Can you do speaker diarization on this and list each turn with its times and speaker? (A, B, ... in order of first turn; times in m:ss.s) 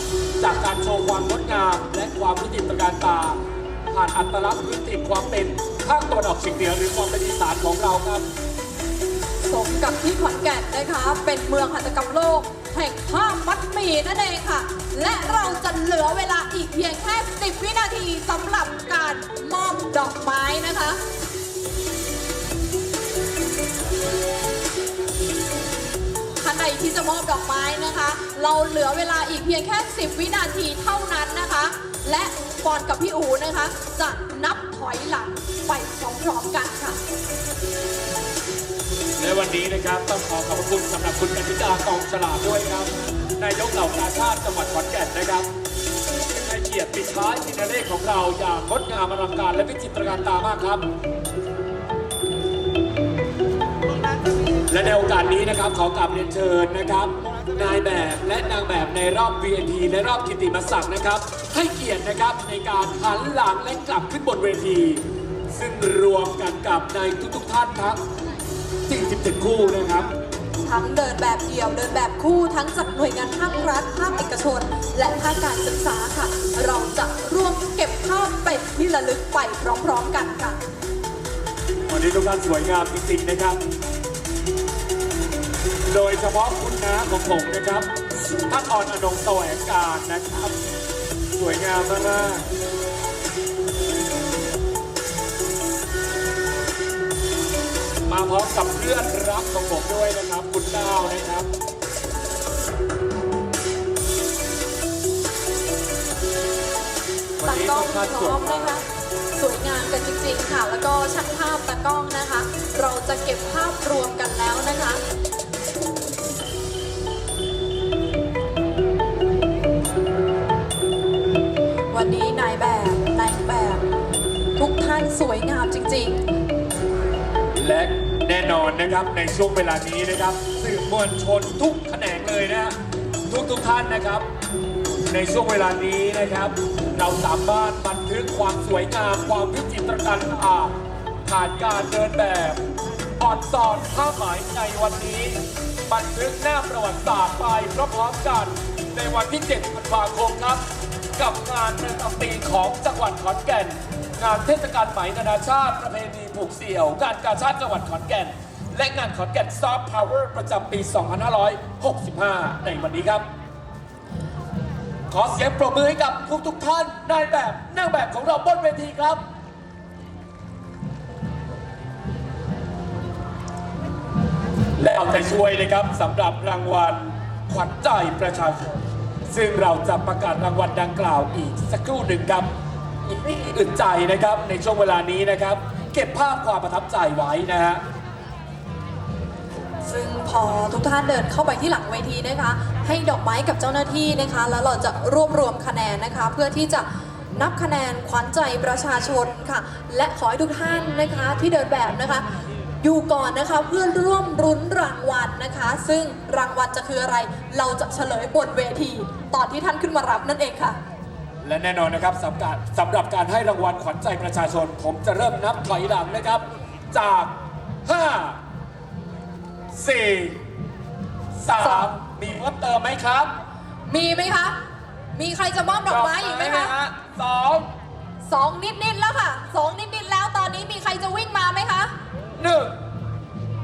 0:00.4-0:03.4 A
0:03.9-0:08.2 A
0:09.5-0:21.0 B
0:26.4-0:37.0 B
0:39.2-0:45.5 A
0:46.3-0:50.8 A
0:54.7-1:08.0 A
1:08.9-1:10.1 A
1:10.6-1:20.6 B
1:21.9-1:23.6 A
1:25.9-1:27.9 A
1:28.5-1:30.5 A
1:31.4-1:32.4 A
1:38.1-1:41.5 A
1:47.4-1:48.8 A
1:47.4-1:55.0 B
2:01.9-2:03.8 B
2:04.6-2:06.2 B
2:07.5-2:12.7 A
2:13.3-2:14.2 A
2:15.1-2:20.7 A
2:21.2-2:22.6 A
2:23.2-2:30.6 A
2:31.2-2:43.2 A
2:45.1-2:49.2 A
2:54.8-2:58.7 A
2:59.3-3:02.5 A
3:03.0-3:07.8 A
3:09.8-3:22.2 B
3:22.8-3:30.8 B
3:31.4-3:37.3 A
3:37.8-3:38.4 A
3:39.7-3:40.4 A
3:41.4-3:43.3 A
3:41.6-3:41.9 B
3:43.9-3:44.6 B
3:45.1-3:46.7 B
3:45.9-3:47.6 A
3:48.2-3:51.9 B
3:52.4-3:52.7 A